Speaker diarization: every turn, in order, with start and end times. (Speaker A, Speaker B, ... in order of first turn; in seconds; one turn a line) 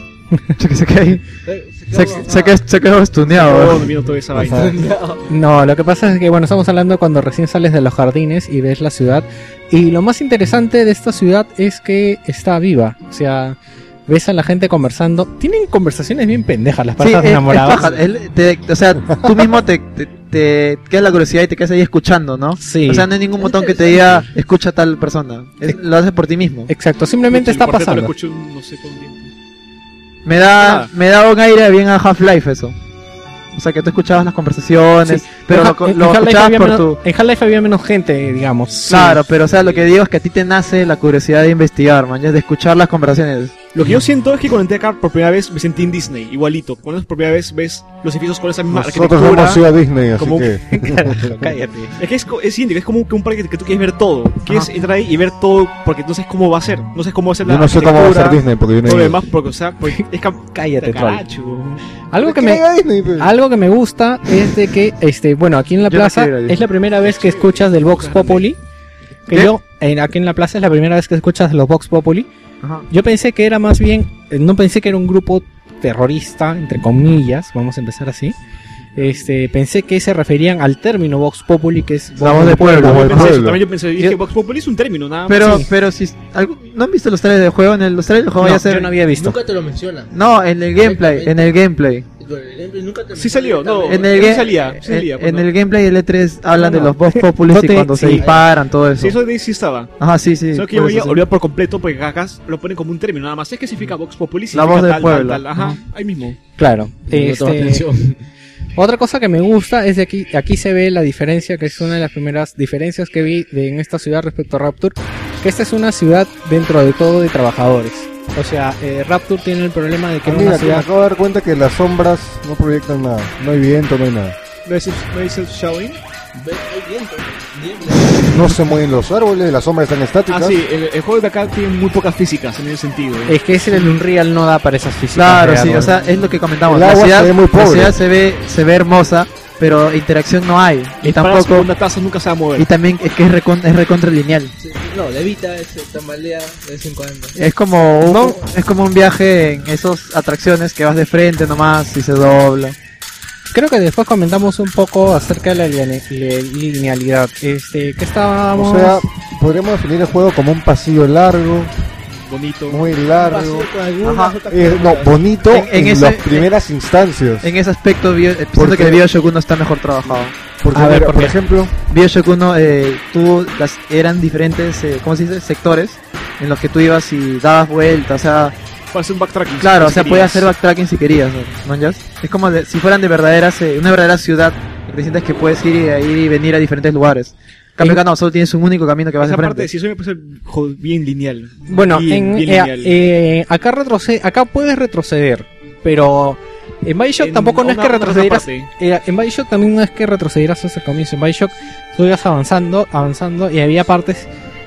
Speaker A: 0.6-1.2
Speaker B: 1.4-2.6
Speaker A: 1.9-3.9
Speaker C: 3.3-4.8
Speaker D: 4.4-4.7
Speaker B: 4.4-5.2
Speaker D: 5.3-17.9
Speaker A: 17.0-26.7
Speaker E: 19.1-19.5
Speaker D: 22.6-23.1
Speaker B: 23.4-24.2
Speaker D: 26.7-28.1
Speaker C: 27.3-29.3
Speaker A: 30.2-32.8
Speaker C: 30.6-30.9
Speaker A: 33.5-37.0
Speaker D: 35.0-39.2
Speaker A: 38.9-43.6
Speaker C: 43.7-49.6
Speaker E: 48.7-51.5
Speaker C: 50.2-50.5
Speaker D: 50.7-51.9
Speaker C: 52.0-61.8
Speaker E: 57.4-59.3
Speaker D: 60.5-61.2
Speaker D: 62.1-62.6
Speaker E: 62.2-63.3
Speaker D: 63.2-68.6
Speaker A: 65.8-66.6
Speaker C: 67.0-68.5
Speaker D: 69.3-72.3
Speaker A: 72.6-72.9
Speaker D: 72.9-78.3
Speaker D: 79.0-83.0
Speaker A: 82.2-83.4
Speaker E: 82.4-83.6
Speaker C: 82.9-85.7
Speaker A: 85.3-89.0
Speaker D: 85.4-85.7
Speaker D: 88.4-89.4
Speaker B: 89.0-90.1
Speaker A: 90.1-92.0
Speaker B: 90.8-91.6
Speaker B: 92.2-94.4
Speaker C: 93.1-95.5
Speaker A: 93.9-99.2
Speaker D: 96.6-98.3
Speaker B: 98.2-98.4
Speaker C: 99.0-99.9
Speaker A: 100.0-101.2
Speaker C: 100.5-106.4
Speaker A: 104.5-105.8
Speaker D: 106.6-107.8
Speaker B: 107.0-108.2
Speaker D: 108.8-120.9
Speaker E: 120.2-124.3
Speaker C: 124.6-126.0
Speaker B: 126.3-128.5
Speaker E: 128.2-130.6
Speaker C: 130.3-133.4
Speaker D: 133.3-135.9
Speaker A: 135.1-141.7
Speaker E: 136.6-138.0
Speaker C: 141.0-142.7
Speaker A: 142.6-144.5
Speaker B: 144.6-147.3
Speaker A: 147.4-152.8
Speaker D: 148.1-148.3
Speaker D: 153.5-159.1
Speaker E: 158.5-161.7
Speaker C: 162.1-162.8
Speaker E: 162.7-163.7
Speaker B: 163.1-165.2
Speaker A: 164.0-164.3
Speaker E: 164.5-167.5
Speaker A: 165.5-166.5
Speaker A: 167.4-170.3
Speaker E: 168.6-169.0
Speaker E: 170.6-171.7
Speaker D: 170.7-171.4
Speaker A: 171.9-178.5
Speaker C: 178.9-180.5
Speaker A: 179.6-189.7
Speaker C: 189.2-192.9
Speaker D: 191.7-204.3
Speaker C: 197.2-198.7